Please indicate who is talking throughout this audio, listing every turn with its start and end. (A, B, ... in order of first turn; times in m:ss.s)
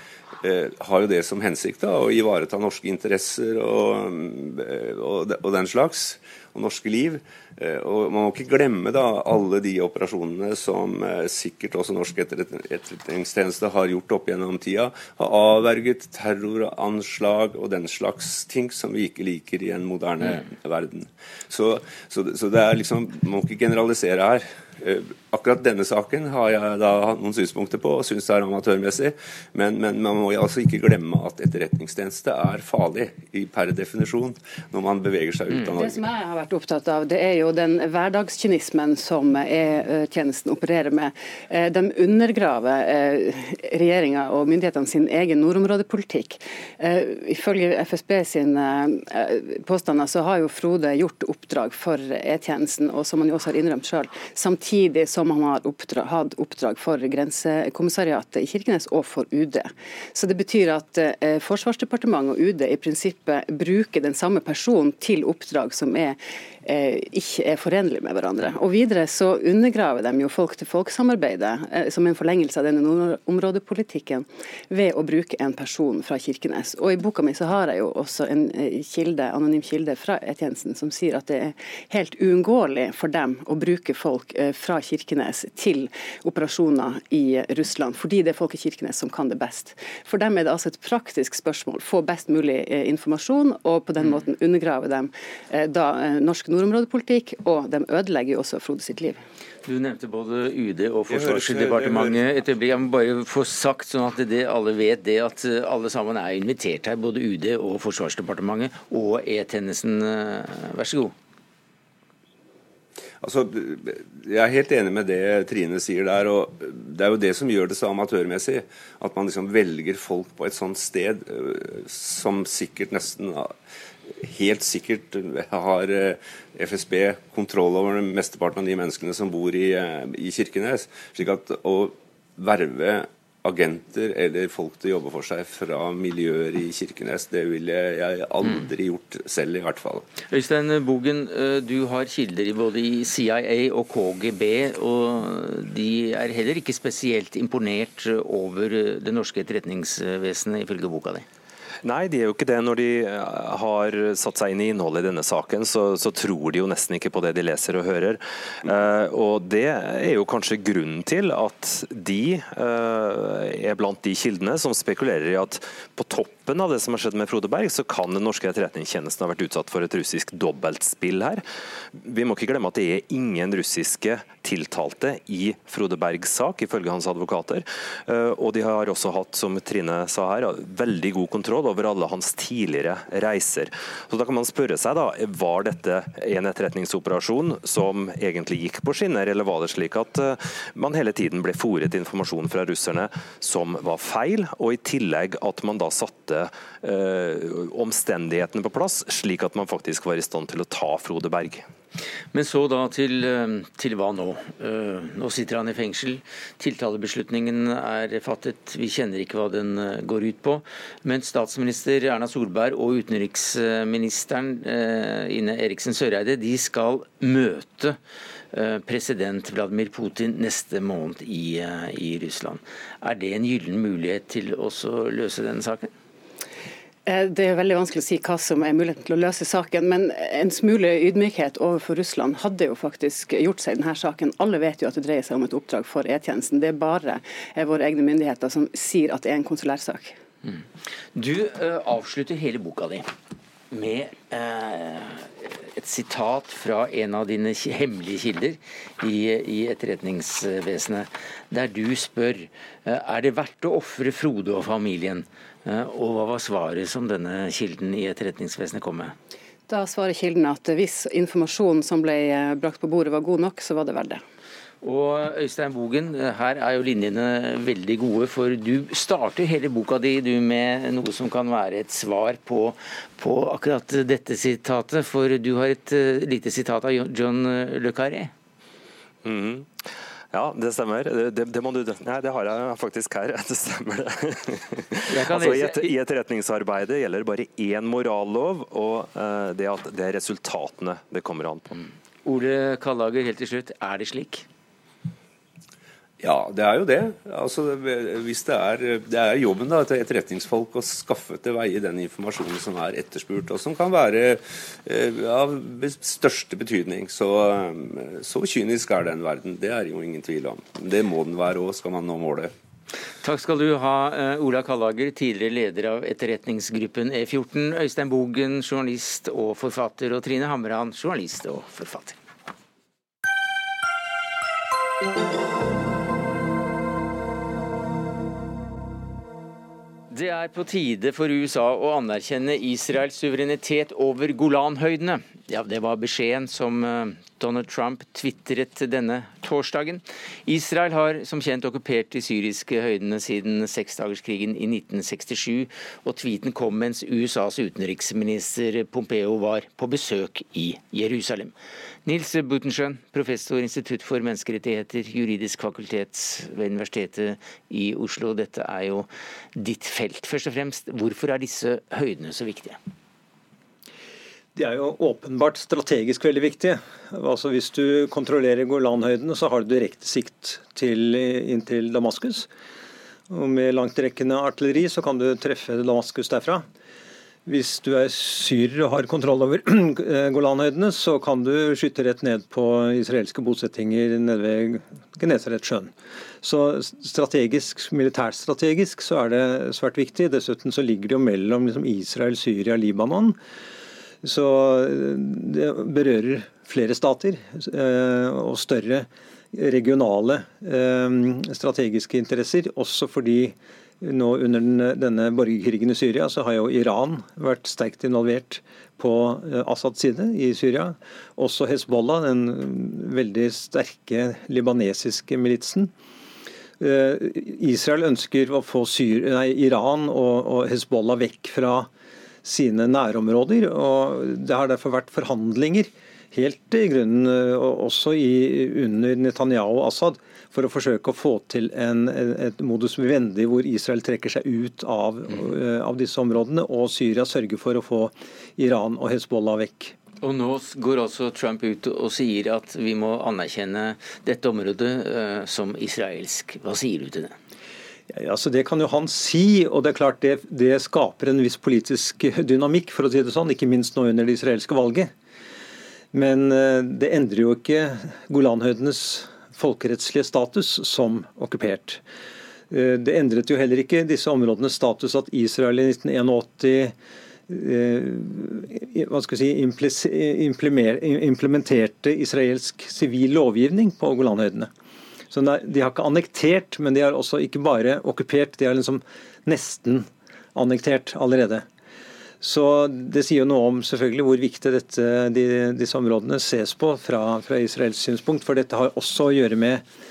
0:00.4-0:36.1 A
0:35.7-1:39.2 B
1:39.6-1:51.1 C
1:41.1-1:42.3 A
1:53.2-2:03.5 A
2:04.1-2:20.1 A
2:20.3-2:31.2 C
2:31.8-2:51.4 D
2:51.9-3:21.7 D
3:22.3-3:38.0 C
3:38.5-3:45.9 C
3:47.0-4:00.2 B
4:01.1-4:03.1 C
4:03.7-4:19.1 C
4:19.7-4:24.2 B
4:24.8-4:38.3 C
4:39.2-4:39.7 D
4:40.3-4:51.7 D
4:45.1-4:45.9 C
4:52.2-4:54.4 C
4:56.2-5:12.5 A
5:13.2-5:22.2 C
5:30.1-6:02.8 C
6:04.6-6:12.5 E
6:13.3-6:16.6 E
6:17.4-6:33.4 E
6:34.2-6:55.9 E
6:56.8-7:01.9 E
7:02.4-7:19.9 E
7:20.2-7:27.3 C
7:28.1-7:35.1 E
7:36.1-7:42.0 E
7:42.7-7:46.9 E
7:47.5-7:54.7 E
7:55.3-8:01.6 E
8:02.4-8:09.8 E